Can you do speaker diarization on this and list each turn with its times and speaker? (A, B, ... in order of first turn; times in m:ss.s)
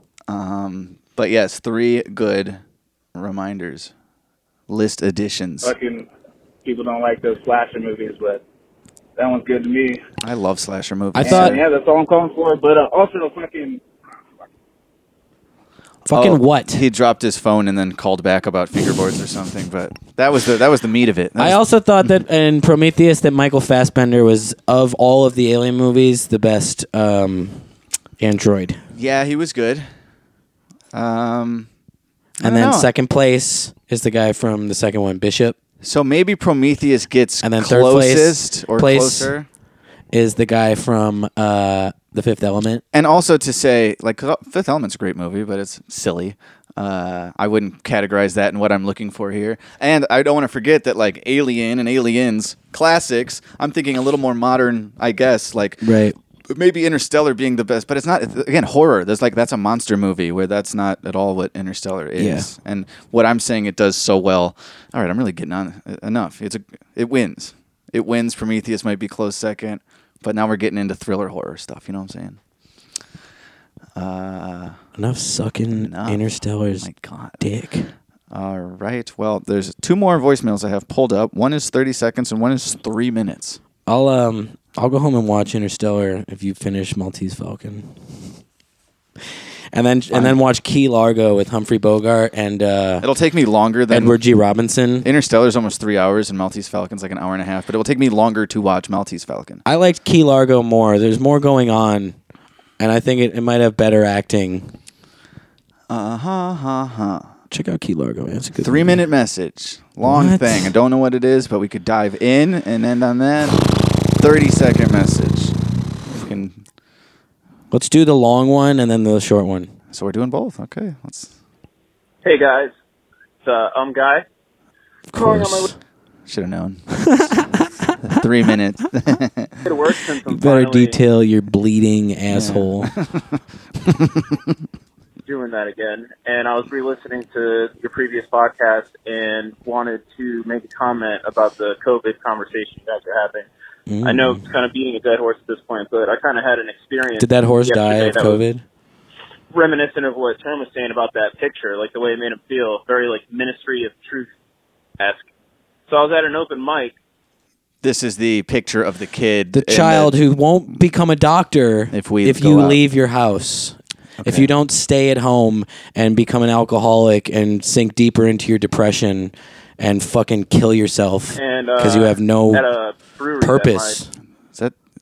0:00.3-0:02.6 A
0:03.1-0:03.9 A
0:04.7-0:05.7 A
0:05.6-0:06.1 B
0:06.6-0:08.4 B
0:09.2-0:10.0 B
0:10.2-0:11.6 A
0:11.1-0:11.6 C
0:11.2-0:13.8 B
0:16.0-0:16.8 C
0:16.1-0:22.1 A
0:21.4-0:27.6 C
0:28.2-0:28.8 C
0:28.9-0:29.8 A
0:30.9-0:31.7 A
0:32.4-0:32.9 A
0:32.4-0:35.6 C
0:35.8-0:39.5 A
0:37.4-0:39.3 C
0:40.1-0:42.8 C
0:42.9-0:55.8 A
0:55.8-0:56.1 C
0:56.5-1:12.4 A
1:02.2-1:02.5 C
1:13.9-1:14.8 A
1:15.0-1:16.9 C
1:15.7-1:16.2 A
1:16.8-1:17.4 A
1:17.4-1:17.9 C
1:18.3-1:23.6 A
1:23.8-1:27.9 C
1:29.7-1:33.0 C
1:30.1-1:30.4 A
1:33.0-1:34.2 A
1:33.9-1:35.1 C
1:35.0-1:39.6 A
1:39.6-1:42.2 C
1:42.8-1:44.7 C
1:45.9-1:47.3 A
1:47.5-1:49.0 C
1:48.6-1:53.6 A
1:50.0-1:50.7 C
1:54.2-1:55.6 A
1:56.1-1:56.6 A
1:57.7-1:59.7 C
1:59.9-2:01.3 A
2:02.2-2:02.7 D
2:03.4-2:04.2 D
2:05.1-2:05.8 C
2:05.1-2:05.7 D
2:06.3-2:07.3 A
2:07.0-2:08.2 C
2:08.1-2:09.6 A
2:09.6-2:11.0 D
2:10.2-2:12.9 C
2:12.3-2:13.2 A
2:13.9-2:14.4 A
2:15.3-2:23.5 D
2:23.9-2:24.4 C
2:24.0-2:28.4 D
2:27.2-2:28.6 C
2:29.5-2:34.3 D
2:35.0-2:35.2 D
2:35.9-2:36.9 D
2:37.8-2:40.1 A
2:39.5-2:52.7 C
2:41.9-2:42.8 A
2:44.2-2:44.5 A
2:51.4-2:54.0 D
2:53.4-2:54.1 C